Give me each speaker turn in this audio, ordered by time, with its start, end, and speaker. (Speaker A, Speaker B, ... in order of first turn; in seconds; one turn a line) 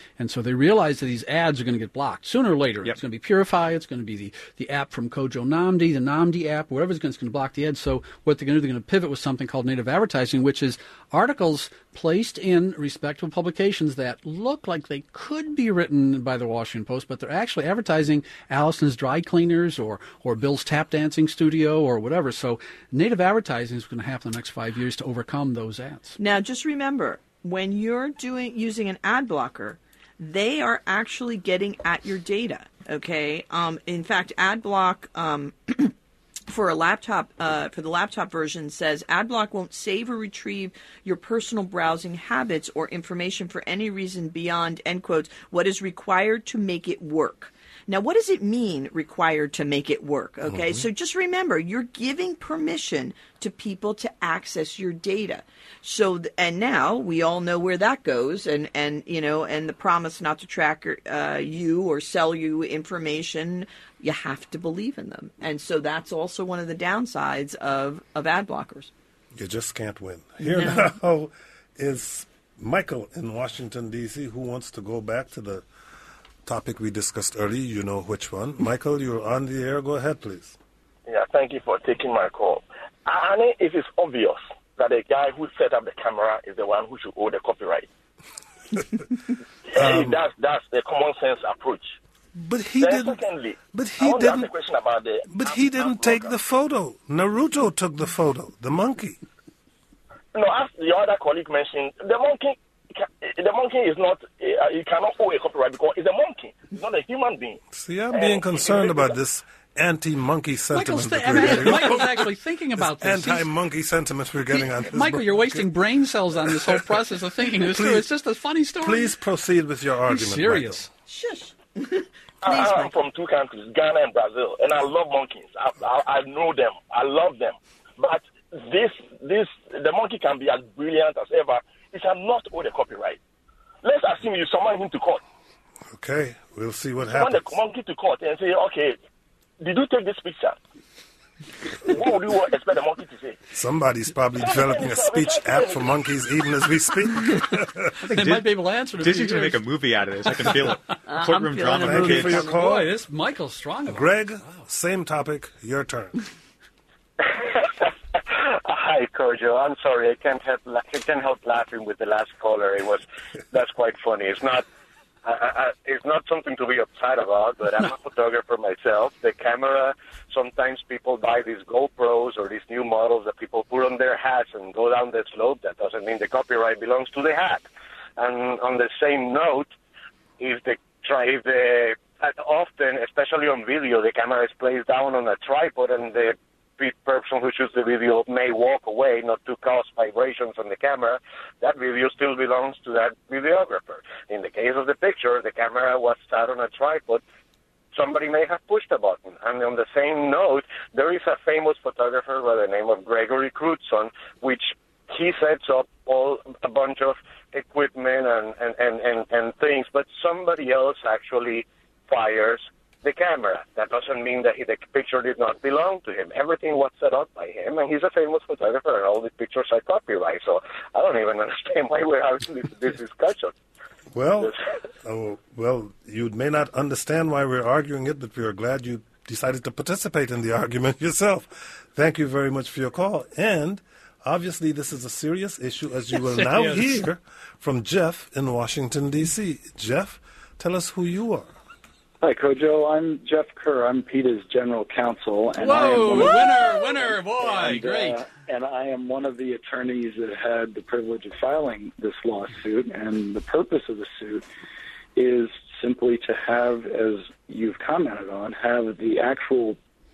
Speaker A: 0.2-26.2
Speaker B: 26.2-35.9
Speaker B: 36.5-68.9
Speaker C: 50.5-50.8
Speaker C: 69.4-75.7
Speaker B: 70.5-70.8
Speaker C: 76.5-80.6
Speaker D: 81.1-87.9
Speaker D: 89.7-91.9
Speaker C: 89.8-90.2
Speaker C: 92.3-94.5
Speaker D: 92.8-96.3
Speaker C: 95.3-99.2
Speaker D: 100.3-107.6
Speaker C: 107.7-112.3
Speaker D: 108.1-109.1
Speaker A: 110.7-113.5
Speaker C: 112.8-115.8
Speaker A: 114.6-119.1
Speaker C: 116.5-116.9
Speaker C: 117.6-118.1
Speaker C: 118.8-120.8
Speaker A: 120.1-120.9
Speaker B: 121.1-123.0
Speaker D: 122.5-133.2
Speaker D: 133.8-135.2
Speaker C: 135.9-137.6
Speaker D: 137.1-139.0
Speaker D: 139.6-140.6
Speaker D: 141.8-143.4
Speaker C: 143.5-147.9
Speaker D: 144.5-146.0
Speaker A: 148.0-149.6
Speaker E: 148.1-148.4
Speaker E: 149.0-152.5
Speaker A: 150.3-151.0
Speaker B: 151.1-151.8
Speaker C: 151.7-152.9
Speaker A: 151.8-154.0
Speaker C: 153.9-156.2
Speaker F: 157.2-164.7
Speaker F: 165.2-177.7
Speaker F: 178.2-179.7
Speaker F: 180.4-197.2
Speaker F: 197.9-223.5
Speaker C: 224.1-241.5
Speaker A: 236.2-237.0
Speaker G: 242.2-254.4
Speaker A: 245.6-248.2
Speaker G: 255.2-259.8